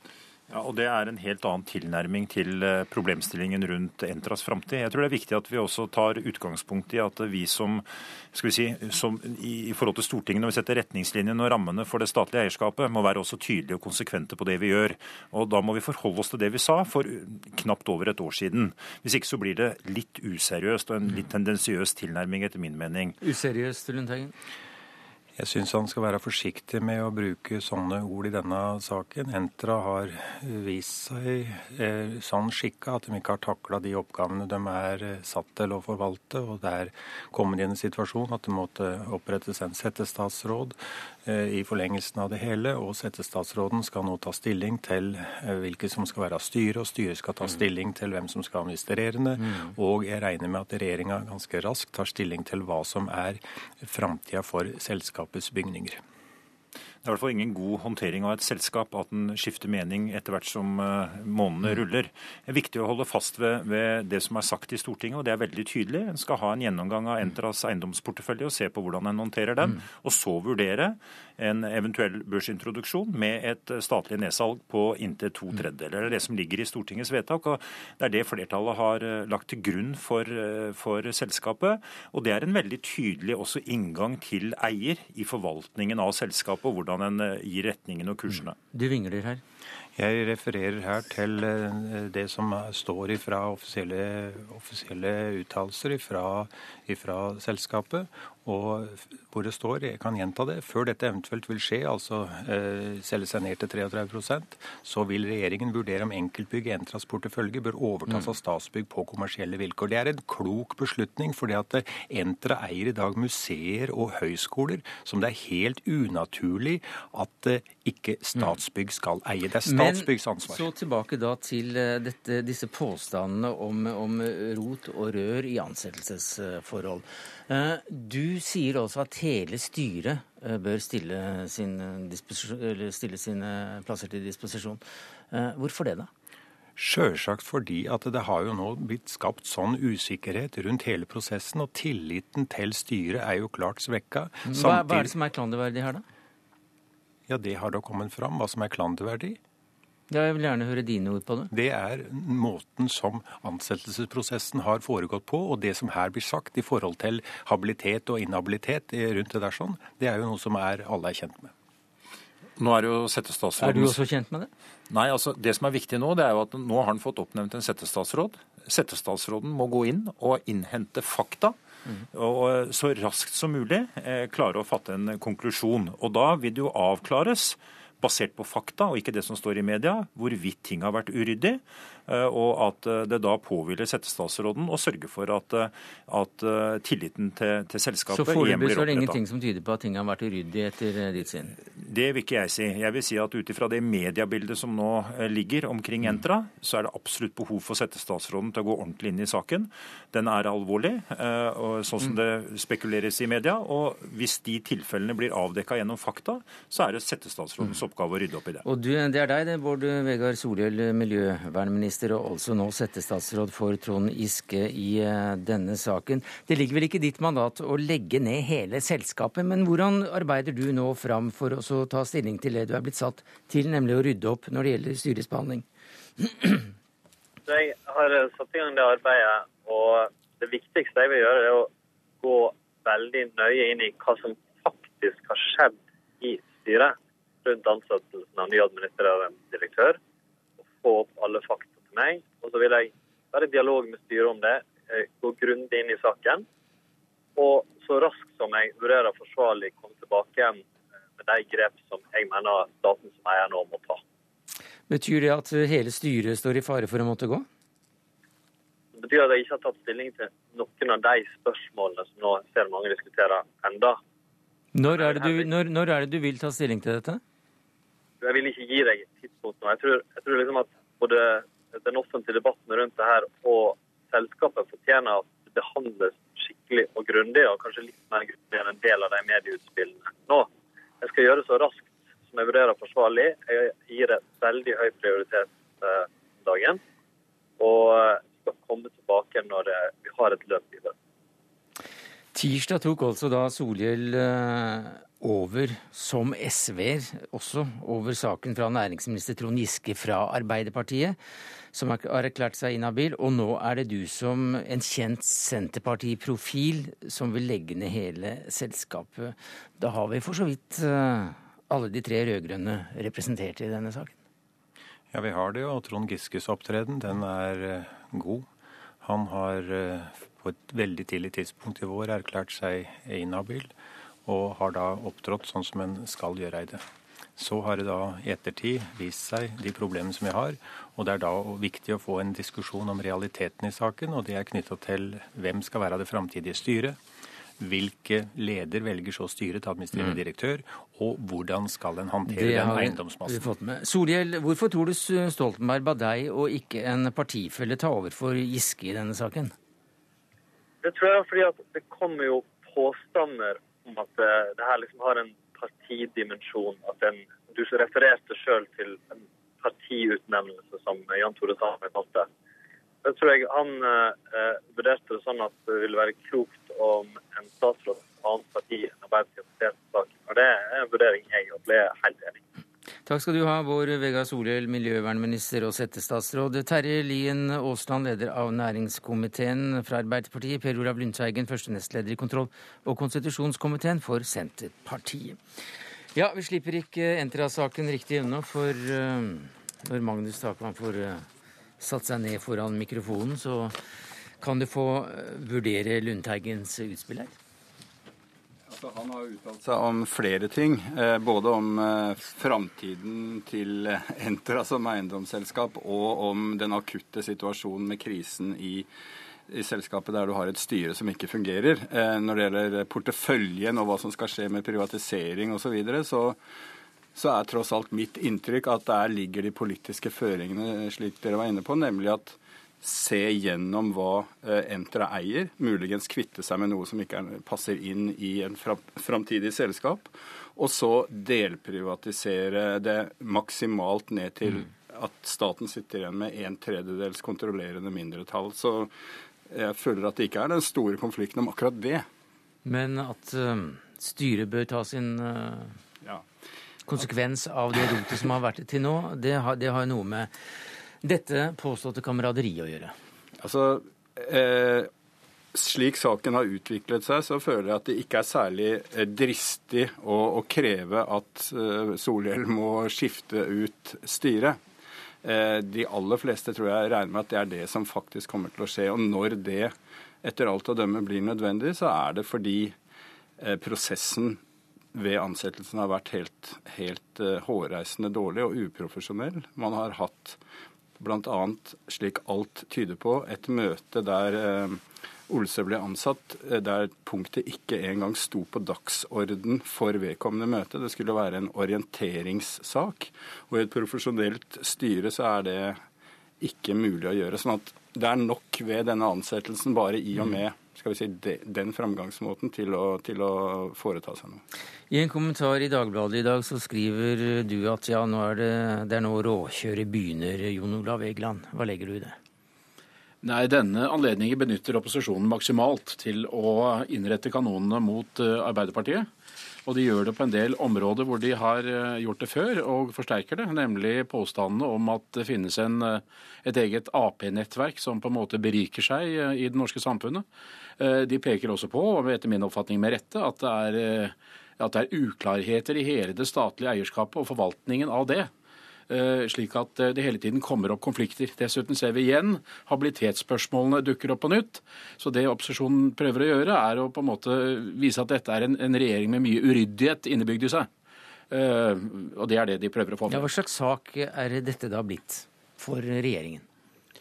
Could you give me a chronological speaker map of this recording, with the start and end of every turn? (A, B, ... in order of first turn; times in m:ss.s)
0:00.5-0:23.2 A
0:23.2-0:24.3 B
0:25.4-0:56.0 C
0:57.0-1:28.6 A
1:28.7-1:29.4 B
1:29.9-2:00.7 C
1:59.6-2:16.1 B
2:16.8-2:25.1 C
2:24.4-2:26.0 B
2:27.3-2:29.4 C
2:30.1-2:31.5 B
2:31.5-2:41.5 C
2:42.6-2:44.0 A
2:43.6-2:44.5 B
2:44.9-2:51.6 A
2:52.1-3:09.2 A
3:08.1-3:11.6 B
3:11.7-3:28.6 A
3:28.6-3:45.6 B
3:46.2-3:46.7 B
3:47.5-3:51.7 D
3:52.2-4:00.0 D
4:00.8-4:06.4 D
4:07.4-4:10.6 D
4:11.2-4:14.0 D
4:14.9-4:17.5 B
4:18.9-4:24.0 D
4:24.7-4:27.2 B
4:24.9-4:25.4 D
4:28.2-4:40.5 D
4:41.0-4:46.8 D
4:47.6-4:50.9 D
4:52.3-5:01.2 B
5:01.7-5:14.1 B
5:15.1-5:18.5 C
5:19.0-5:23.7 C
5:24.2-5:26.8 C
5:27.4-5:37.0 C
5:37.6-5:43.5 C
5:42.3-5:49.5 B
5:50.8-6:02.3 D
6:03.0-6:12.4 D
6:13.0-6:25.4 B
6:26.1-6:31.2 B
6:31.8-6:33.8 B
6:34.4-6:37.3 B
6:38.7-6:48.9 E
6:49.5-6:56.4 E
6:57.1-7:18.9 E
7:19.5-7:22.0 E
7:22.6-7:25.8 B
7:26.9-7:30.3 B
7:31.0-7:32.9 B
7:33.4-7:34.9 E
7:35.5-7:44.6 E
7:45.2-7:52.8 E
7:53.4-7:54.4 E
7:54.9-8:00.4 E
8:01.0-8:15.8 E
8:16.4-8:24.4 E
8:24.9-8:32.2 B
8:33.2-8:39.1 F
8:39.6-8:50.2 F
8:50.8-8:58.3 F
8:58.9-9:10.7 F
9:11.3-9:13.3 F
9:13.1-9:16.4 B